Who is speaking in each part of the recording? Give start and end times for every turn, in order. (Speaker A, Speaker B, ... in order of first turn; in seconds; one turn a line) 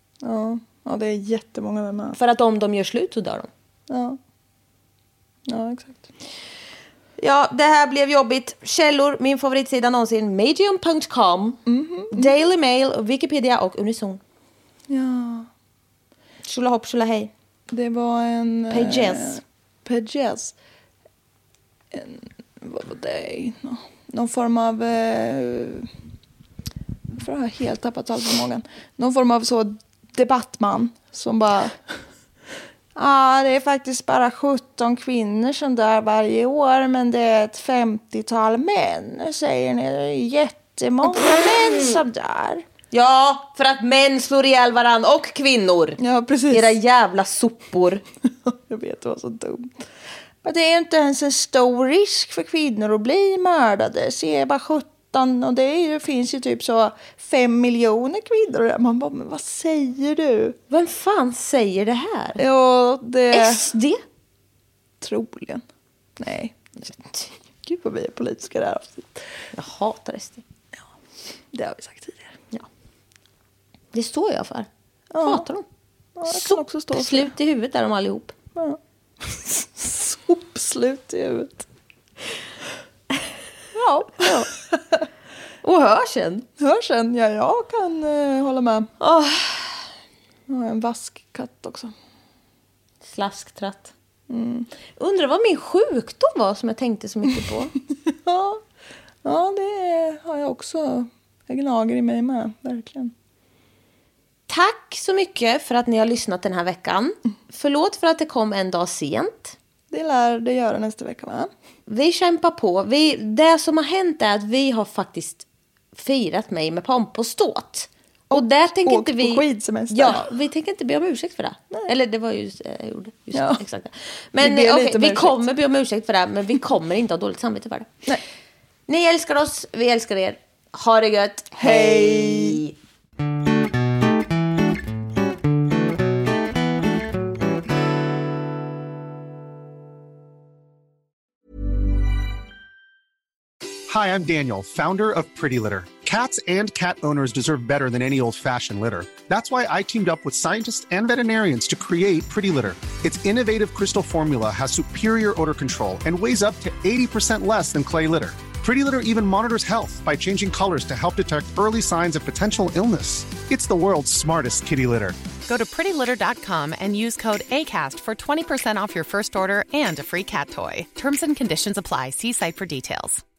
Speaker A: 0.2-2.2
Speaker B: 2.1-3.5
Speaker A: 3.9-4.2
Speaker A: 5.5-6.1
Speaker B: 7.2-14.2
Speaker A: 11.7-12.3
Speaker A: 14.9-15.5
Speaker B: 16.4-17.3
Speaker A: 17.7-20.6
Speaker B: 18.7-19.4
Speaker A: 21.9-25.9
Speaker A: 27.1-31.8
Speaker A: 33.0-42.7
Speaker B: 42.9-48.0
Speaker A: 46.0-46.8
Speaker A: 48.3-49.9
Speaker A: 50.4-60.6
Speaker B: 60.7-62.4
Speaker A: 62.4-63.7
Speaker B: 63.3-64.0
Speaker A: 65.0-65.6
Speaker A: 66.2-66.6
Speaker B: 66.8-67.3
Speaker A: 67.6-69.4
Speaker B: 69.5-70.4
Speaker A: 71.5-72.4
Speaker B: 73.9-74.7
Speaker A: 75.1-75.5
Speaker B: 75.2-75.7
Speaker A: 76.2-77.3
Speaker B: 76.3-78.3
Speaker A: 78.5-81.7
Speaker A: 83.8-85.0
Speaker B: 83.8-84.5
Speaker B: 85.6-86.5
Speaker A: 86.6-88.9
Speaker B: 89.0-89.8
Speaker A: 90.5-91.9
Speaker B: 93.0-93.9
Speaker A: 94.3-94.7
Speaker B: 95.0-97.7
Speaker A: 98.1-98.6
Speaker A: 99.2-103.1
Speaker B: 104.5-109.6
Speaker A: 109.9-111.5
Speaker B: 111.9-128.1
Speaker A: 118.3-120.3
Speaker A: 123.3-123.6
Speaker A: 124.4-125.5
Speaker B: 128.9-132.8
Speaker A: 131.6-132.6
Speaker C: 143.9-165.2
Speaker D: 165.5-173.2